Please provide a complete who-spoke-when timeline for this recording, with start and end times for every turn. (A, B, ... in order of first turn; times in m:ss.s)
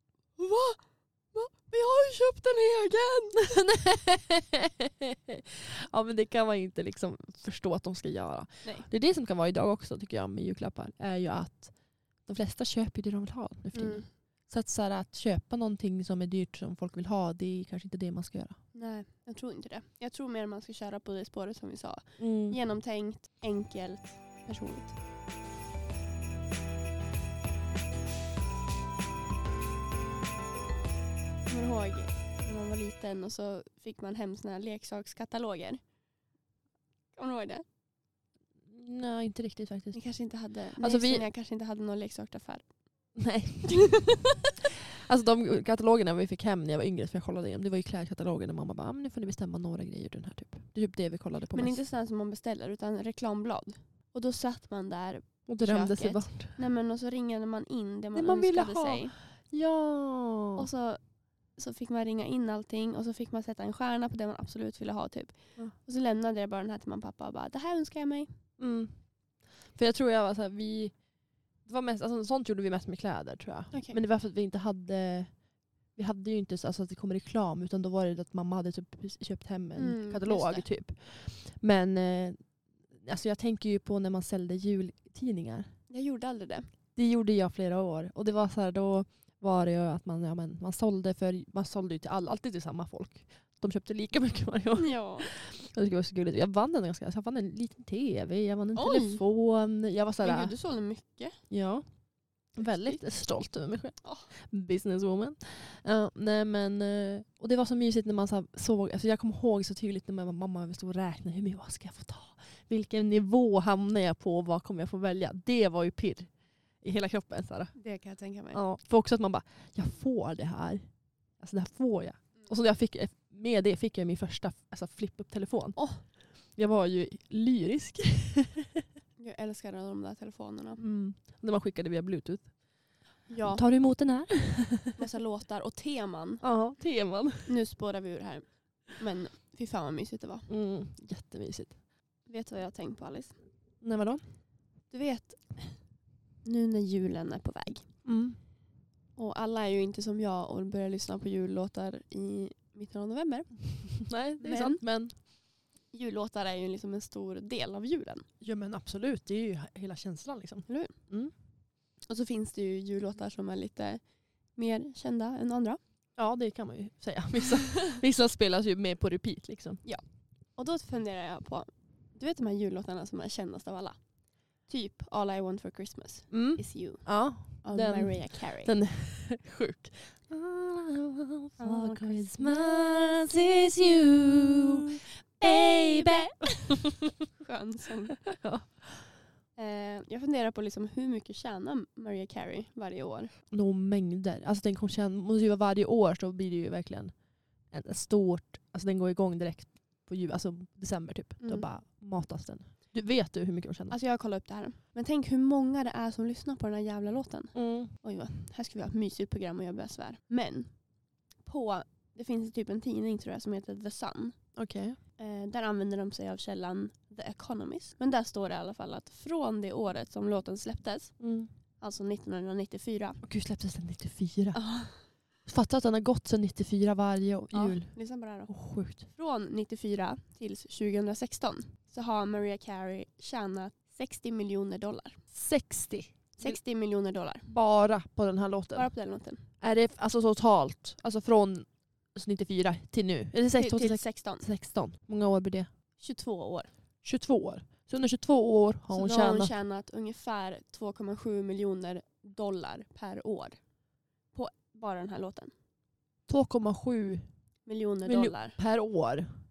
0:00.4-0:03.4 A
0:03.6-0:18.6 B
0:08.6-0:08.9 A
0:13.7-0:14.1 A
0:18.7-0:25.0 A
0:22.2-0:22.6 B
0:31.5-0:35.8 A
0:37.1-0:37.6 A
0:38.7-0:40.2 B
0:39.9-0:42.8 A
0:40.8-0:41.3 B
0:43.2-0:44.2 B
0:45.0-0:51.8 B
0:51.5-0:59.2 A
0:55.5-0:56.6 B
0:58.1-1:00.7 B
1:00.6-1:01.0 A
1:01.5-1:08.3 A
1:08.6-1:11.1 B
1:11.6-1:25.7 B
1:13.7-1:14.0 A
1:19.8-1:20.7 A
1:25.9-1:26.7 A
1:27.0-1:40.5 B
1:34.8-1:35.3 A
1:38.7-1:39.2 A
1:40.2-1:41.4 A
1:41.5-1:57.8 B
1:42.6-1:43.1 A
1:44.0-1:44.3 A
1:57.7-1:58.6 A
1:58.5-2:08.8 B
2:05.8-2:06.0 A
2:09.2-2:10.8 A
2:10.8-2:12.6 B
2:13.3-2:13.6 A
2:13.5-2:15.0 B
2:15.0-2:16.7 A
2:16.4-2:17.6 B
2:17.4-2:20.5 A
2:20.5-2:21.8 B
2:22.2-2:23.4 A
2:23.8-2:24.2 B
2:24.9-2:25.8 A
2:26.4-2:28.0 A
2:28.0-2:28.4 B
2:29.2-2:35.3 A
2:34.0-2:35.2 B
2:35.9-2:38.3 A
2:38.4-2:41.3 B
2:40.7-2:41.1 A
2:42.0-2:44.0 A
2:44.5-2:45.8 A
2:46.2-2:49.8 B
2:49.8-2:54.0 A
2:54.6-2:58.7 A
2:56.3-3:06.7 B
3:01.6-3:03.2 A
3:05.4-3:08.2 A
3:08.4-3:09.2 B
3:09.5-3:13.3 A
3:13.5-3:24.0 B
3:21.4-3:21.7 A
3:23.9-3:30.8 A
3:27.5-3:27.9 B
3:31.4-3:34.6 A
3:34.6-3:35.0 B
3:35.2-3:43.2 A
3:41.2-3:41.5 B
3:43.2-3:49.1 B
3:44.5-3:45.1 A
3:47.5-3:55.2 A
3:55.3-3:56.6 B
3:56.4-3:57.5 A
3:57.5-3:58.9 B
3:58.7-3:59.4 A
3:59.6-4:05.7 B
4:03.6-4:04.5 A
4:06.0-4:06.7 A
4:07.0-4:09.5 B
4:08.9-4:13.6 A
4:14.3-4:15.5 A
4:16.3-4:17.2 B
4:17.6-4:18.6 A
4:18.0-4:19.3 B